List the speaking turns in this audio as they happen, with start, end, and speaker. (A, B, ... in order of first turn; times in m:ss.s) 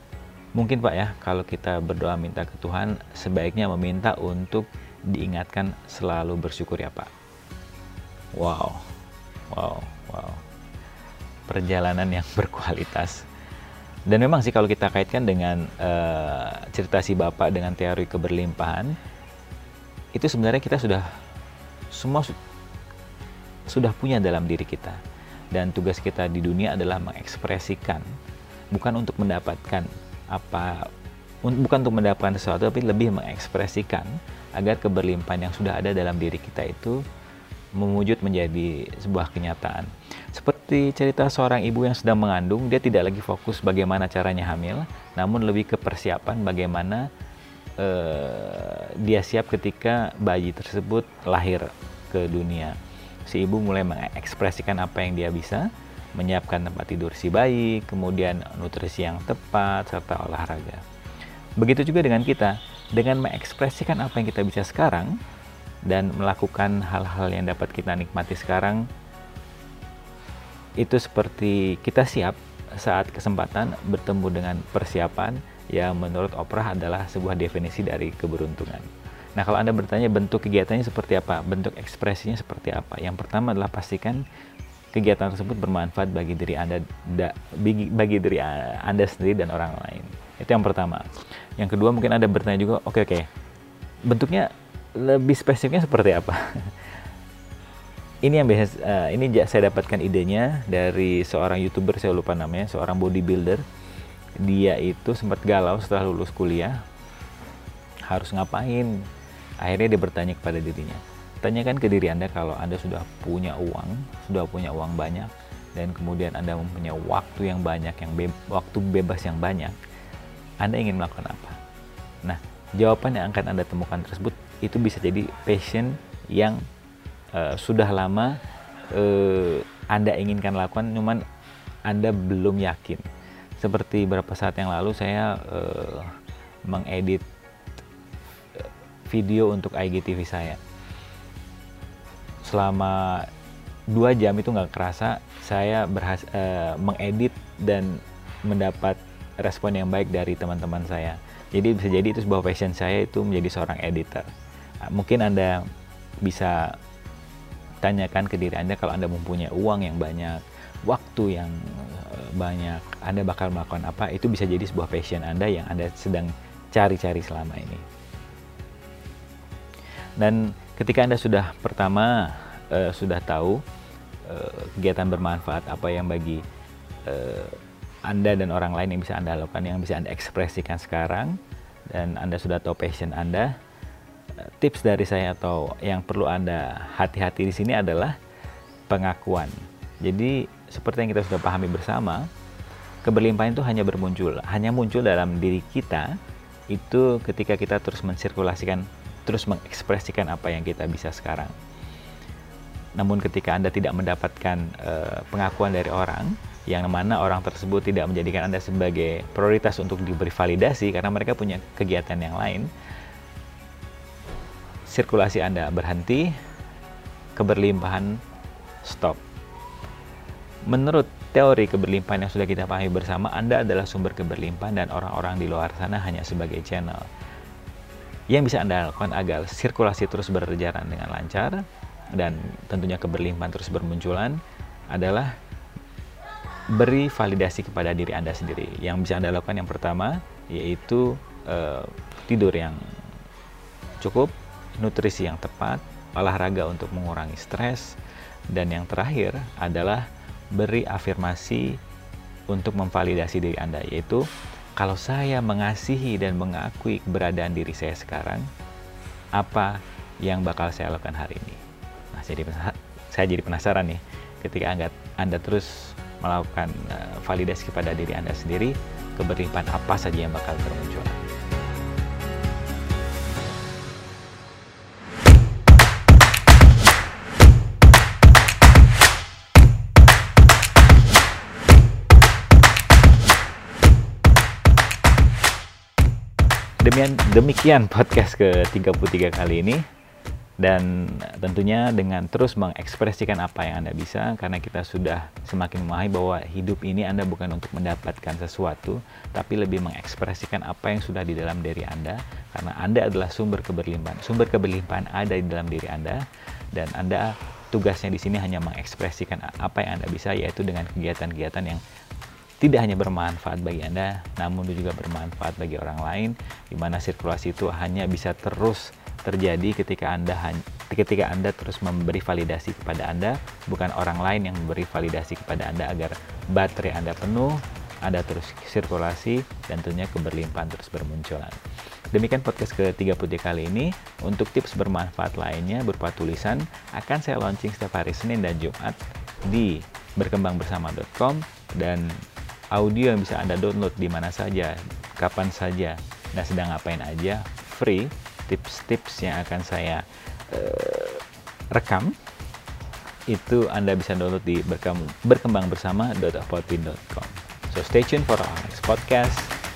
0:00.5-0:07.1 A
0:08.4-0:08.9 A
0:09.5-0:10.4 A
0:11.5-0:13.2 A
0:14.1-0:19.0 A
0:20.1-0:21.1 A
0:21.9-0:22.4 A
0:23.7-0:25.0 A
0:25.5-0:28.1 A
0:28.7-0:30.9 A
0:31.4-0:37.0 A
0:37.8-0:47.0 A
0:47.8-1:00.8 A
1:01.6-1:05.1 A
1:05.9-1:08.8 A
1:10.8-1:24.2 A
1:24.9-1:33.3 A
1:34.1-1:37.0 A
1:38.2-1:43.6 A
1:44.4-1:46.8 A
1:48.1-1:49.0 A
1:49.6-1:59.8 A
2:00.6-2:01.6 A
2:02.2-2:06.6 A
2:07.3-2:08.4 A
2:08.9-2:11.2 A
2:11.9-2:13.0 A
2:13.6-2:16.1 A
2:16.7-2:17.2 A
2:18.6-2:20.6 A
2:22.4-2:23.3 A
2:23.9-2:34.3 A
2:34.8-2:35.6 A
2:36.2-2:36.7 A
2:37.8-2:47.8 A
2:50.2-2:53.6 A
2:54.2-2:56.4 A
2:57.0-3:01.4 A
3:01.9-3:03.5 A
3:04.4-3:08.2 A
3:08.9-3:09.5 A
3:10.0-3:12.2 A
3:13.0-3:16.1 A
3:16.7-3:21.5 A
3:23.0-3:32.7 A
3:34.9-3:36.3 A
3:37.4-3:38.2 A
3:38.8-3:39.2 A
3:40.7-3:47.0 A
3:48.3-3:51.6 A
3:52.1-3:54.4 A
3:54.9-3:55.3 A
3:56.7-4:02.8 A
4:04.0-4:07.9 A
4:08.5-4:11.8 A
4:12.5-4:14.2 A
4:14.8-4:18.5 A
4:19.4-4:21.6 A
4:22.1-4:31.2 A
4:46.8-4:49.8 A
4:50.6-5:11.8 A
5:12.6-5:31.6 A
5:32.1-5:42.2 A
5:42.7-5:52.1 A
5:53.3-5:59.5 A